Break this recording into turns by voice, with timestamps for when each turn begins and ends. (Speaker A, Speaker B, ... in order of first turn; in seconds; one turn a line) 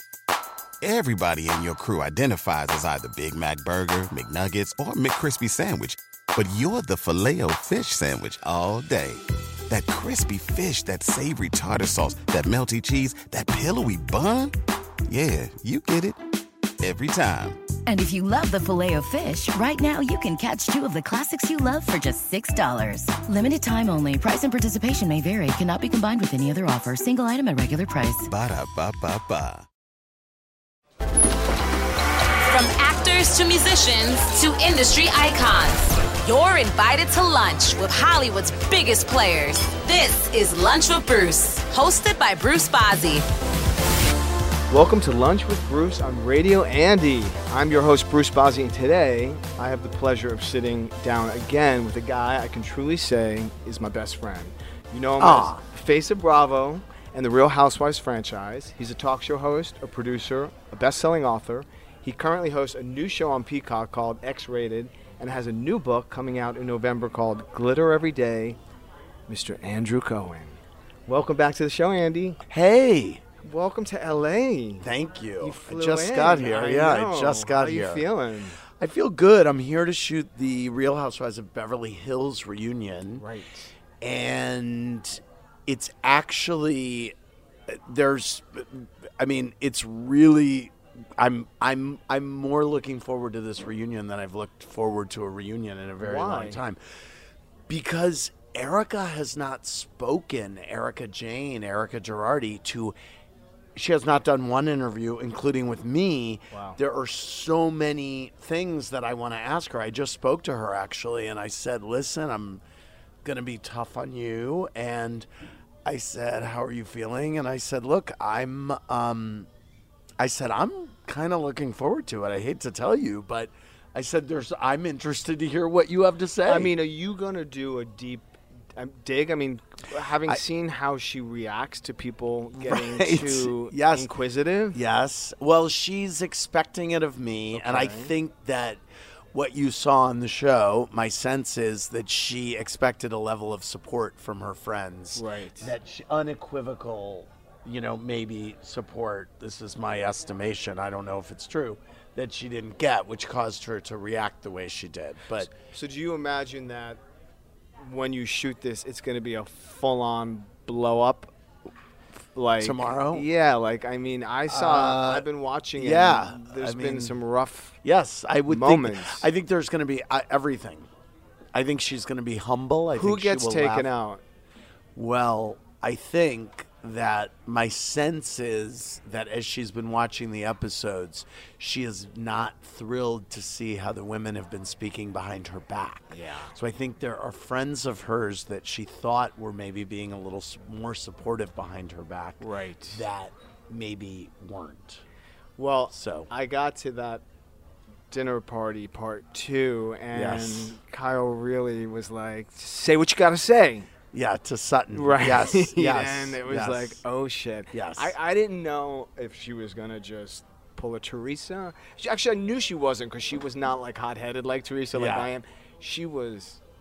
Speaker A: 0.8-14.5
Speaker A: 15.1-16.2
Speaker A: 16.8-17.6
Speaker B: 17.9-28.3
Speaker A: 28.3-29.6
Speaker C: 32.4-43.2
Speaker D: 44.7-68.6
Speaker E: 55.2-55.6
Speaker D: 69.3-72.4
Speaker E: 72.5-73.2
Speaker D: 73.4-74.9
Speaker E: 74.8-78.0
Speaker D: 75.4-78.6
Speaker E: 78.7-83.2
Speaker D: 83.2-83.7
Speaker E: 84.0-87.1
Speaker E: 87.7-96.8
Speaker D: 96.0-96.6
Speaker E: 97.7-102.9
Speaker E: 103.8-112.6
Speaker D: 106.5-106.8
Speaker E: 113.2-115.3
Speaker E: 115.8-119.5
Speaker E: 120.2-126.7
Speaker D: 126.5-134.8
Speaker E: 132.6-134.1
Speaker E: 134.7-138.8
Speaker D: 137.5-138.1
Speaker E: 139.3-155.5
Speaker D: 145.1-145.7
Speaker D: 155.5-157.0
Speaker D: 157.8-161.3
Speaker D: 162.3-167.8
Speaker E: 162.6-163.2
Speaker E: 164.5-165.2
Speaker E: 165.8-167.1
Speaker E: 167.8-170.9
Speaker D: 168.5-169.3
Speaker E: 171.5-173.9
Speaker D: 172.9-174.2
Speaker E: 174.9-195.0
Speaker D: 186.1-186.5
Speaker D: 192.4-193.0
Speaker D: 195.6-197.2
Speaker E: 195.9-196.3
Speaker D: 198.1-203.9
Speaker E: 200.1-200.8
Speaker E: 204.1-207.0
Speaker D: 204.9-216.6
Speaker E: 207.7-208.1
Speaker E: 214.9-215.3